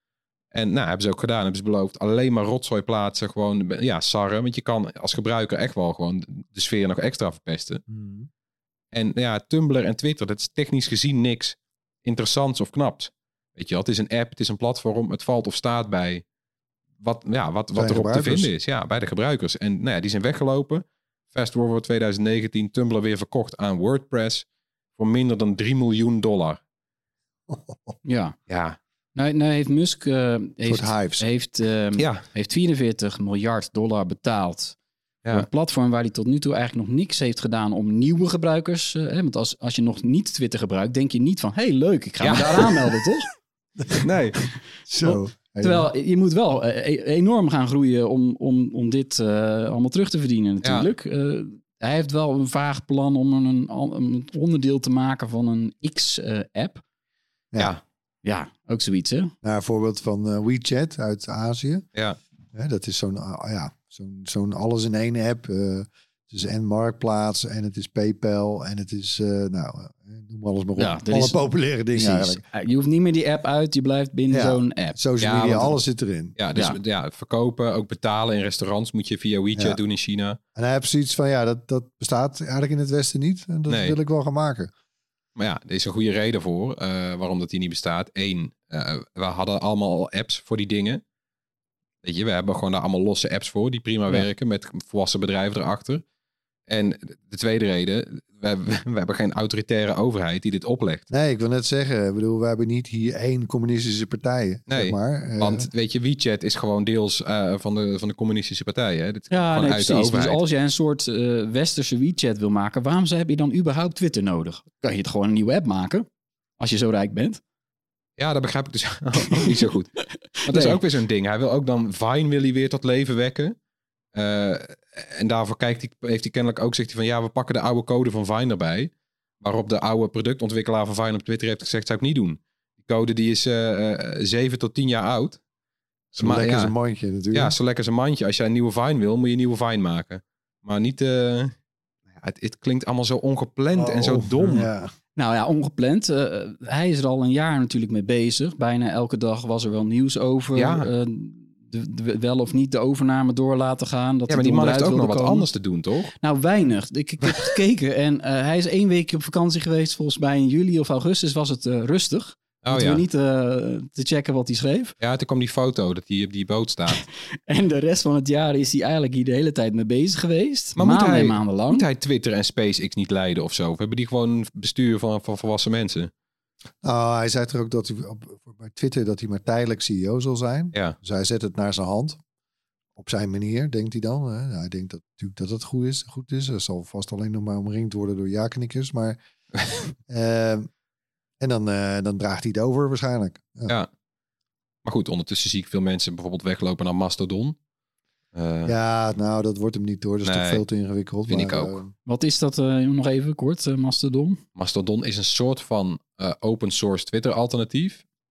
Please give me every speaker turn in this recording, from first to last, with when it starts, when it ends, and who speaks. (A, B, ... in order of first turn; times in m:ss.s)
0:00.5-0:07.8 A
0:07.9-0:08.3 B
0:08.9-0:16.2 A
0:17.0-0:26.6 A
0:17.7-0:18.5 B
0:27.5-0:27.8 B
0:28.0-0:28.4 C
0:28.5-0:28.8 A
0:29.1-0:34.8 C
0:30.6-0:31.2 B
0:32.0-0:32.2 A
0:35.3-0:43.3 C
0:42.2-0:42.7 A
0:44.0-0:44.4 A
0:44.9-0:45.9 B
0:45.6-0:56.8 C
0:50.6-0:50.9 A
0:58.2-0:59.3 C
0:59.4-1:01.8 B
1:02.5-1:12.4 B
1:10.8-1:11.4 C
1:11.9-1:15.0 C
1:14.3-1:16.4 B
1:15.2-1:15.8 A
1:16.4-1:20.4 A
1:20.6-1:24.7 B
1:23.7-1:24.0 A
1:25.4-1:31.0 A
1:32.0-1:36.0 A
1:36.7-1:41.0 A
1:41.1-1:45.7 B
1:44.7-1:50.4 A
1:49.3-1:56.0 C
1:56.6-1:57.4 C
1:58.2-2:03.6 A
2:00.4-2:00.8 C
2:04.1-2:15.4 A
2:16.1-2:16.7 A
2:16.2-2:17.5 B
2:17.3-2:21.5 A
2:22.1-2:24.7 A
2:23.7-2:24.9 B
2:25.2-2:35.5 C
2:30.5-2:30.9 A
2:34.3-2:36.1 A
2:36.2-2:44.9 C
2:42.6-2:43.0 A
2:45.0-2:47.0 A
2:47.5-2:51.8 C
2:50.8-2:56.1 A
2:56.8-3:02.2 B
3:03.0-3:09.2 B
3:10.1-3:10.7 B
3:11.4-3:13.7 B
3:14.8-3:17.6 A
3:18.3-3:18.7 A
3:18.6-3:21.9 B
3:20.2-3:20.6 A
3:21.3-3:21.8 A
3:22.0-3:24.4 C
3:24.6-3:28.0 A